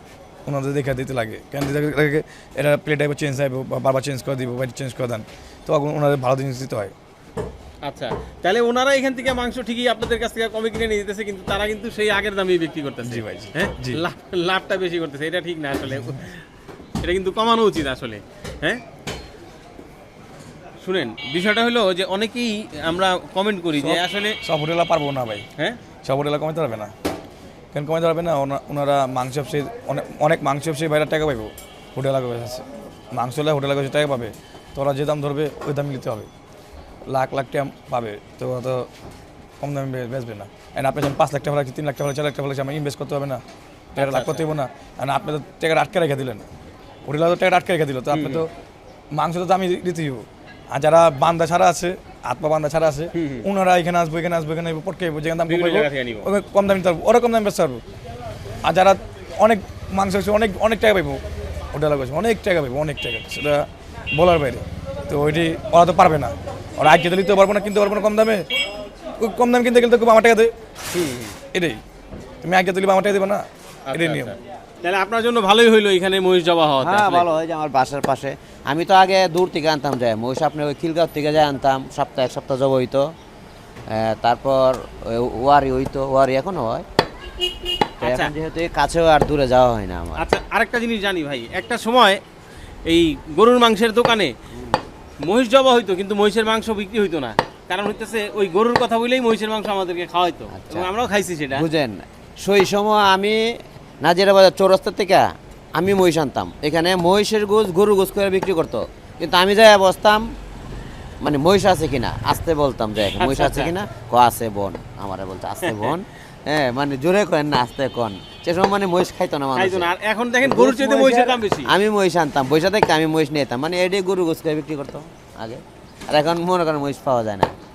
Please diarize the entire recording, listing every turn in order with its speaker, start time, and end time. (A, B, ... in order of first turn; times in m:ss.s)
0:00.5-0:06.9 A
0:07.9-0:16.4 B
0:13.0-0:14.0 A
0:17.0-0:18.8 B
0:20.8-0:24.4 B
0:23.8-0:25.4 A
0:26.0-0:26.9 A
0:27.7-0:36.3 A
0:37.1-0:38.9 A
0:39.6-0:43.4 A
0:44.0-0:44.4 B
0:44.0-0:46.5 A
0:47.1-0:48.5 A
0:48.1-0:48.4 B
0:49.1-0:57.8 A
0:53.1-0:53.5 B
0:55.5-0:56.3 B
0:58.6-1:01.2 A
1:01.7-1:08.4 A
1:09.2-1:10.5 A
1:11.5-1:11.8 A
1:12.4-1:14.3 A
1:13.9-1:17.3 B
1:16.8-1:23.1 C
1:23.9-1:26.8 C
1:28.0-1:28.3 B
1:28.0-1:30.2 C
1:30.2-1:32.2 B
1:32.9-1:34.3 B
1:35.2-1:41.7 B
1:40.5-1:40.9 C
1:41.5-1:43.4 C
1:44.0-1:50.2 C
1:51.2-1:59.9 C
1:53.2-1:53.7 B
1:55.6-1:56.0 B
1:59.6-2:01.7 B
2:00.4-2:07.5 C